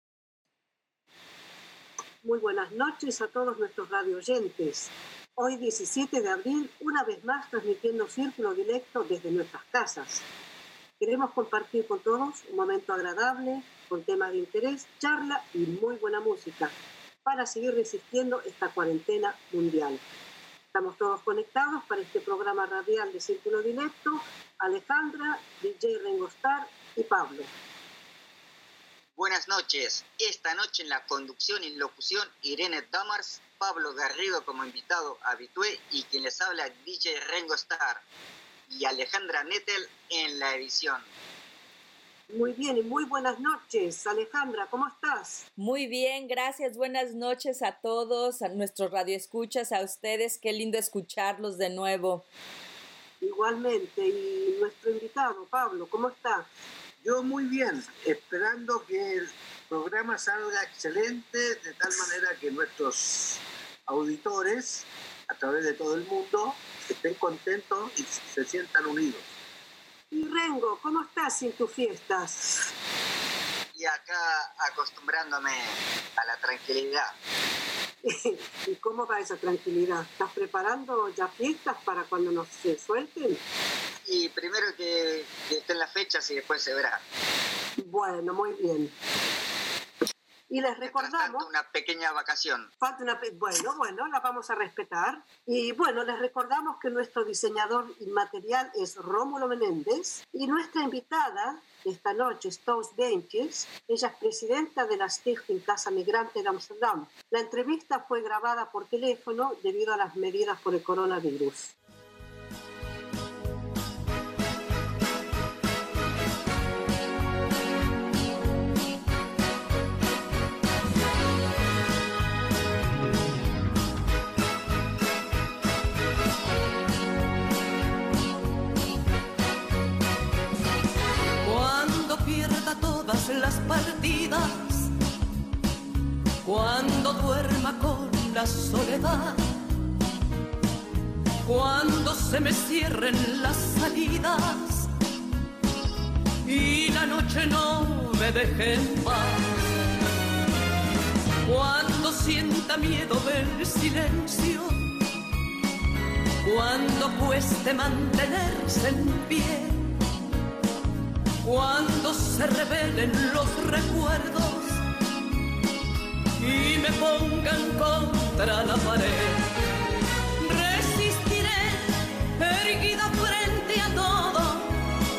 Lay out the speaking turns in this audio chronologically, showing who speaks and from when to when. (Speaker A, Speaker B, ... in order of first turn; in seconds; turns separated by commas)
Speaker A: 2.2-10.2, Speaker A: 11.0-16.7, Speaker A: 17.2-20.0, Speaker A: 20.7-27.5, Speaker B: 29.2-38.0, Speaker B: 38.7-41.1, Speaker A: 42.3-45.5, Speaker C: 45.6-52.3, Speaker A: 53.2-56.5, Speaker D: 57.0-69.2, Speaker A: 70.1-72.7, Speaker B: 73.8-77.1, Speaker A: 78.0-83.4, Speaker B: 84.1-87.0, Speaker A: 87.8-88.9, Speaker A: 90.5-91.5, Speaker B: 90.8-92.7, Speaker A: 92.8-111.8, Speaker E: 131.4-134.9, Speaker E: 136.4-139.4, Speaker E: 141.4-144.9, Speaker E: 146.4-149.8, Speaker E: 151.4-154.9, Speaker E: 156.4-159.9, Speaker E: 161.4-164.8, Speaker E: 166.4-169.4, Speaker E: 170.4-174.7